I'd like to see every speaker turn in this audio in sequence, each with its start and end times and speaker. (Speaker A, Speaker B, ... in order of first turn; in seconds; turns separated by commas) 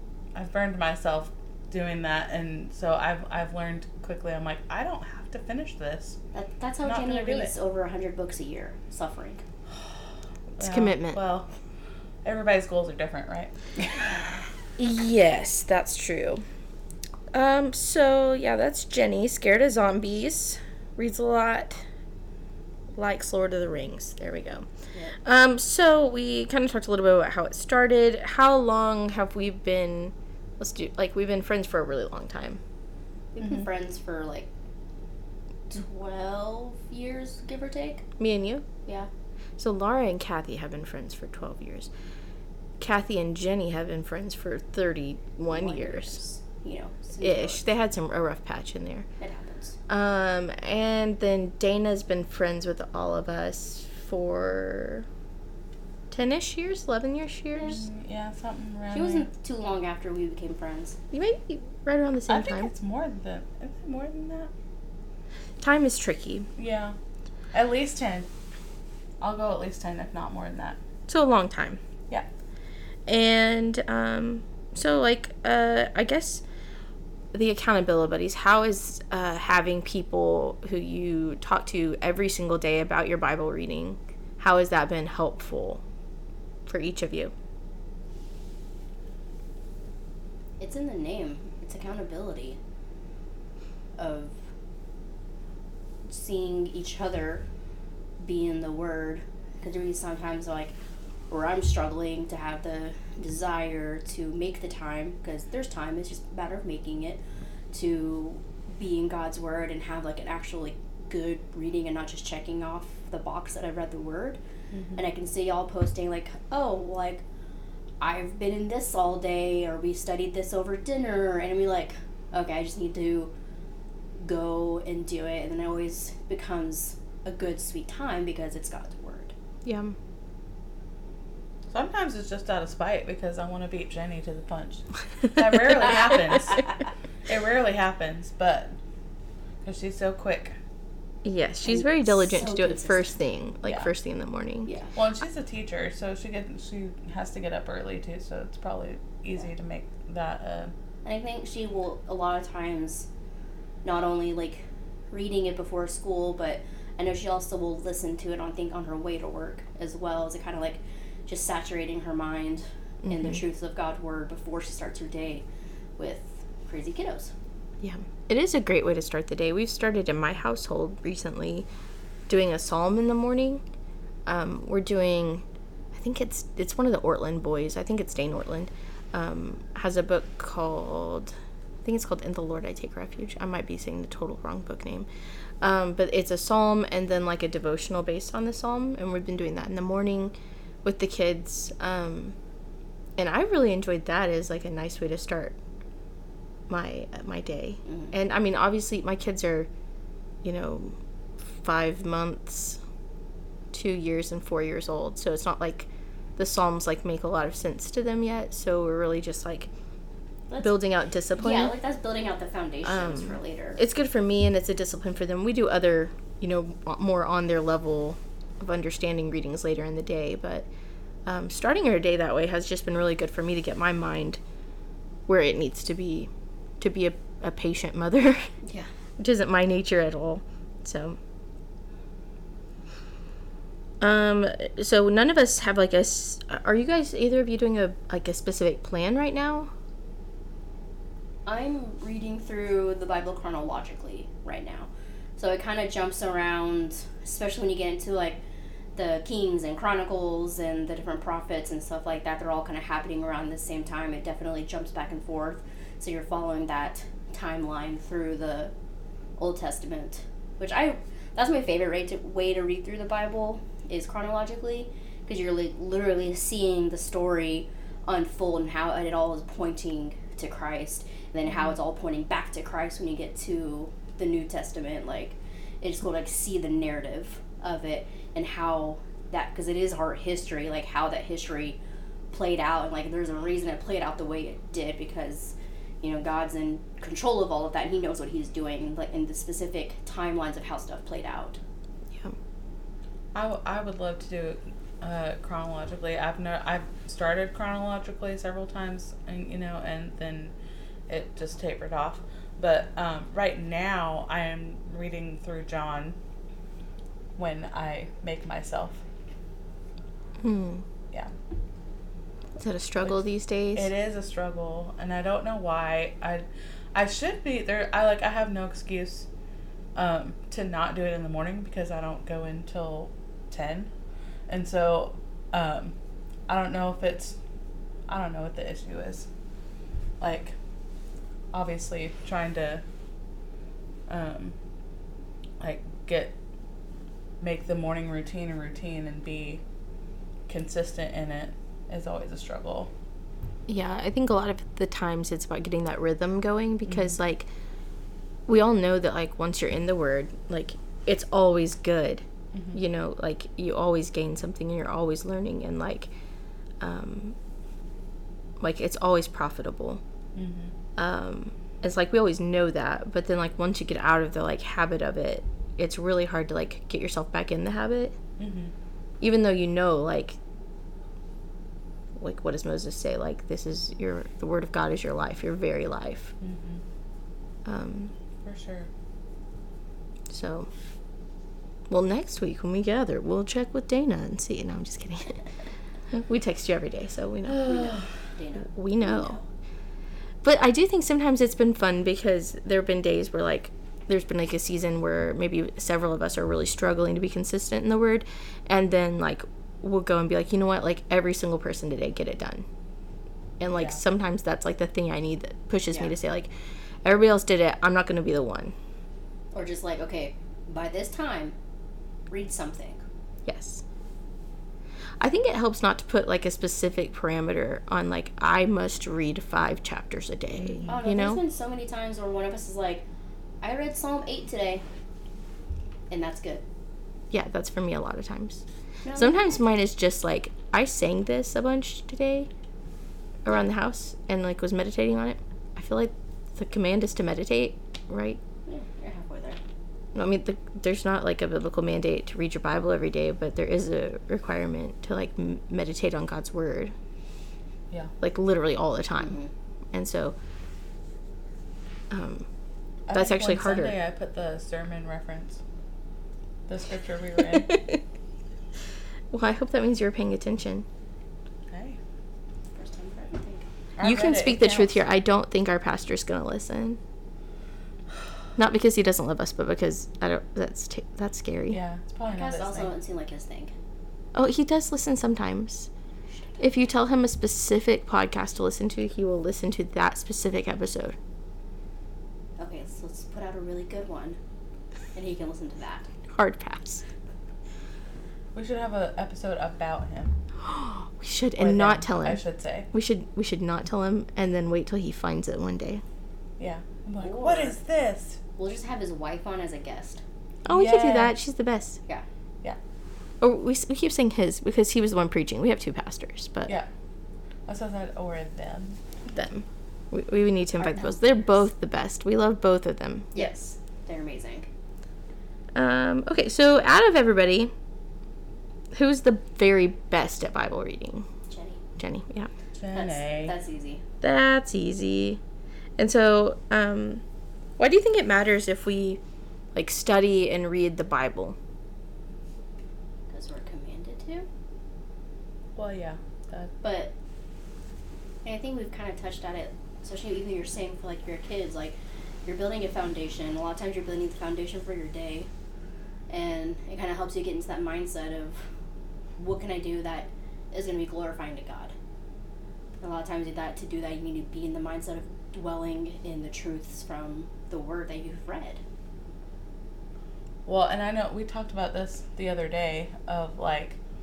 Speaker A: 0.3-6.2, Speaker B: 6.3-9.4, Speaker A: 6.8-7.5, Speaker A: 10.6-11.5, Speaker C: 10.6-11.2, Speaker A: 12.2-14.2, Speaker C: 14.8-16.4, Speaker C: 17.3-21.8, Speaker C: 22.9-24.7, Speaker C: 25.2-32.6, Speaker B: 33.3-34.5, Speaker B: 35.7-38.0, Speaker C: 38.2-38.6, Speaker C: 39.6-41.9, Speaker C: 42.8-46.2, Speaker B: 45.5-47.6, Speaker C: 47.2-49.1, Speaker B: 49.2-49.8, Speaker C: 49.9-55.0, Speaker C: 56.1-57.8, Speaker A: 57.6-59.3, Speaker B: 58.9-61.0, Speaker C: 61.1-62.7, Speaker A: 62.3-64.5, Speaker C: 65.6-66.5, Speaker A: 66.6-66.9, Speaker A: 67.5-68.3, Speaker A: 69.2-70.8, Speaker C: 71.1-71.8, Speaker C: 73.1-76.4, Speaker C: 77.3-85.8, Speaker C: 86.7-87.3, Speaker B: 90.6-92.6, Speaker B: 94.0-94.3, Speaker B: 96.1-97.4, Speaker B: 98.2-100.7, Speaker B: 101.3-107.2, Speaker B: 107.7-114.4, Speaker A: 114.7-115.0, Speaker B: 115.0-117.2, Speaker B: 118.0-123.3, Speaker B: 124.2-129.3, Speaker C: 129.6-129.9, Speaker A: 131.7-136.7, Speaker A: 137.3-138.7, Speaker A: 139.6-140.5, Speaker C: 141.2-144.7, Speaker B: 141.7-143.1, Speaker A: 143.6-143.9, Speaker B: 144.7-144.9, Speaker A: 144.9-150.7, Speaker B: 151.0-153.1, Speaker B: 153.8-165.4, Speaker C: 163.0-163.4, Speaker B: 166.0-167.3, Speaker C: 167.8-171.7, Speaker C: 172.3-173.6, Speaker C: 174.2-185.1, Speaker C: 185.6-190.3, Speaker C: 190.8-192.3, Speaker C: 193.2-195.5, Speaker C: 196.7-199.7, Speaker B: 197.9-198.1, Speaker C: 200.4-202.8, Speaker C: 203.7-209.7, Speaker B: 210.5-210.8, Speaker C: 210.6-211.7, Speaker B: 211.3-213.8, Speaker C: 212.8-220.7, Speaker C: 221.2-224.4, Speaker C: 225.3-228.5, Speaker C: 229.2-231.2, Speaker C: 234.0-239.7, Speaker B: 241.4-248.4, Speaker B: 248.9-258.7, Speaker B: 259.4-281.8, Speaker A: 271.5-271.8, Speaker B: 282.3-291.6, Speaker A: 293.3-300.5, Speaker A: 301.1-306.1, Speaker A: 307.4-309.0, Speaker C: 310.4-310.8, Speaker C: 312.6-313.9, Speaker A: 313.7-319.3, Speaker A: 319.9-323.9, Speaker A: 324.5-325.9, Speaker A: 326.5-327.4, Speaker A: 328.1-329.3, Speaker A: 330.2-330.5, Speaker A: 331.5-332.8, Speaker A: 334.1-334.5, Speaker A: 335.6-336.3, Speaker A: 337.4-339.6, Speaker A: 340.5-342.9, Speaker C: 343.7-347.5, Speaker A: 346.9-347.1, Speaker C: 348.5-356.1, Speaker A: 352.5-352.8, Speaker C: 356.8-357.4, Speaker C: 358.6-360.0, Speaker A: 360.3-360.7, Speaker C: 360.9-368.1, Speaker A: 368.4-368.7, Speaker C: 369.2-370.4, Speaker C: 372.2-376.3, Speaker A: 376.4-376.8, Speaker C: 377.6-378.1, Speaker A: 378.4-378.9, Speaker C: 380.3-380.7, Speaker C: 381.9-385.4, Speaker C: 386.1-388.0, Speaker B: 387.6-389.4, Speaker C: 388.6-389.4, Speaker C: 390.4-402.6, Speaker C: 403.6-406.5, Speaker A: 403.7-404.0, Speaker C: 407.0-408.7, Speaker B: 409.5-411.5, Speaker B: 412.3-413.0, Speaker C: 413.4-413.8, Speaker C: 415.2-421.4, Speaker A: 420.6-421.0, Speaker B: 420.9-423.0, Speaker B: 423.6-424.8, Speaker B: 426.1-426.6, Speaker C: 427.3-428.6, Speaker B: 429.0-429.4, Speaker C: 429.1-432.5, Speaker C: 433.4-438.4, Speaker B: 438.7-439.6, Speaker C: 440.1-446.9, Speaker C: 448.2-449.4, Speaker B: 449.2-449.5, Speaker C: 449.9-450.3, Speaker C: 452.1-452.4, Speaker A: 453.1-455.6, Speaker C: 453.1-454.0, Speaker A: 456.7-457.8, Speaker C: 457.5-458.0, Speaker C: 459.3-460.9, Speaker A: 461.7-462.0, Speaker B: 462.7-463.6, Speaker A: 464.0-465.0, Speaker C: 464.0-467.0, Speaker C: 468.6-471.8, Speaker A: 471.7-472.9, Speaker B: 472.3-473.7, Speaker C: 474.3-475.9, Speaker C: 476.6-481.1, Speaker B: 482.6-484.4, Speaker B: 485.1-486.1, Speaker C: 486.3-487.0, Speaker A: 488.5-490.3, Speaker C: 490.6-492.4, Speaker A: 491.6-492.9, Speaker C: 492.9-496.0, Speaker A: 496.6-498.4, Speaker B: 497.2-497.8, Speaker B: 498.6-500.2, Speaker C: 500.6-502.0, Speaker A: 500.7-501.3, Speaker C: 503.4-506.7, Speaker A: 507.7-509.0, Speaker C: 509.3-513.3, Speaker B: 513.3-514.7, Speaker C: 515.7-517.7, Speaker C: 518.9-521.3, Speaker B: 521.5-521.8, Speaker C: 522.0-522.5, Speaker A: 522.8-523.5, Speaker B: 522.9-524.0, Speaker C: 524.2-525.4, Speaker C: 526.0-527.2, Speaker C: 527.8-529.2, Speaker C: 529.7-531.5, Speaker B: 533.3-534.5, Speaker A: 535.8-536.7, Speaker B: 536.8-537.1, Speaker B: 538.4-545.5, Speaker B: 546.3-548.6, Speaker B: 549.4-551.9, Speaker B: 553.0-558.8, Speaker A: 560.6-564.0